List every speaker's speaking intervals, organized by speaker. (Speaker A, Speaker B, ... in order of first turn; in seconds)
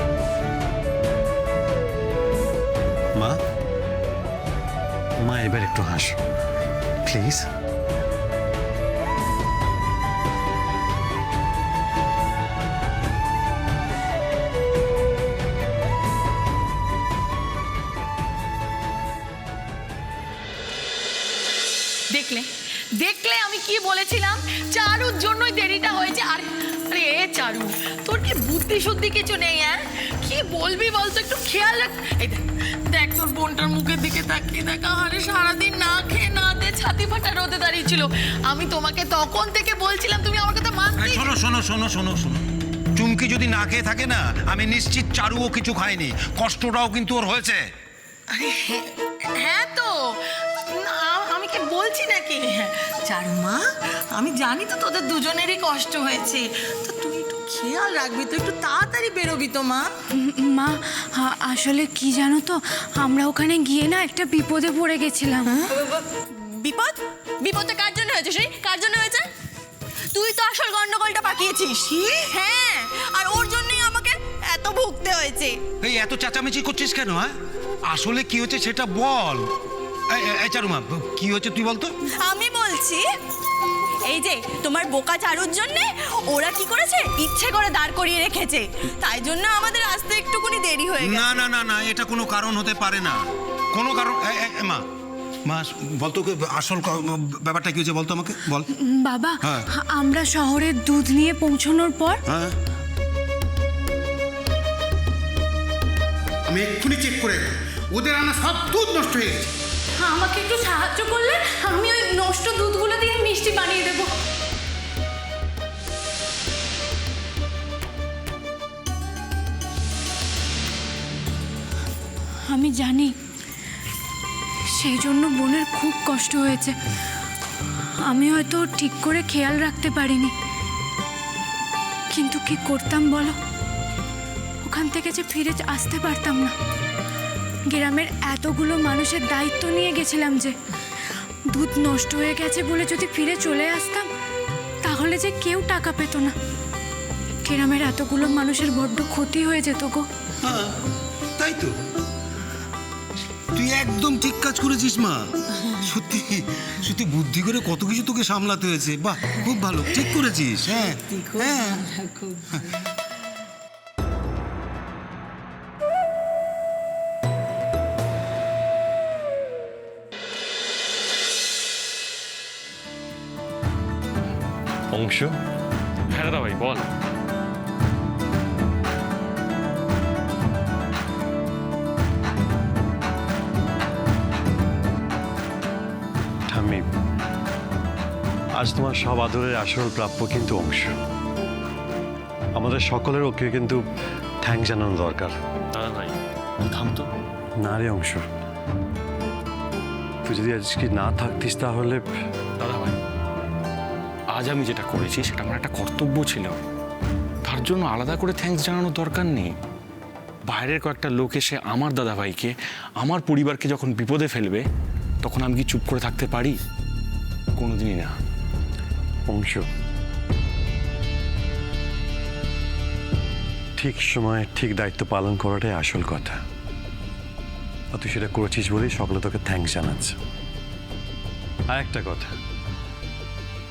Speaker A: 5.2-6.2, 7.0-7.5, 174.9-175.4, 186.5-186.8, 188.6-190.9, 192.6-193.8, 194.4-195.3, 197.6-198.2, 200.2-202.0, 219.3-219.7, 223.8-226.4, 227.9-230.2, 231.7-232.3
Speaker B: 22.1-41.3, 48.4-59.9, 161.2-162.4
Speaker C: 41.0-42.4, 43.0-47.6, 75.8-77.3, 77.9-79.5, 80.1-81.9, 91.0-93.2, 93.7-94.8, 95.4-98.7, 102.3-102.5, 106.5-109.5, 150.4-150.7, 151.4-151.8, 153.5-155.2, 155.8-161.9
Speaker D: 60.1-65.6, 98.8-102.2, 110.0-114.1, 122.4-123.1, 124.7-126.8, 128.0-130.3, 132.1-133.3, 134.6-136.5, 137.7-140.5, 141.5-144.1, 144.8-146.3, 147.4-150.1
Speaker E: 65.8-69.2, 70.1-75.6, 82.2-83.0, 84.1-91.4
Speaker F: 176.1-176.9, 195.7-197.1, 202.6-203.0, 204.3-206.6, 207.4-209.5, 210.4-214.6, 215.2-216.6, 217.6-218.2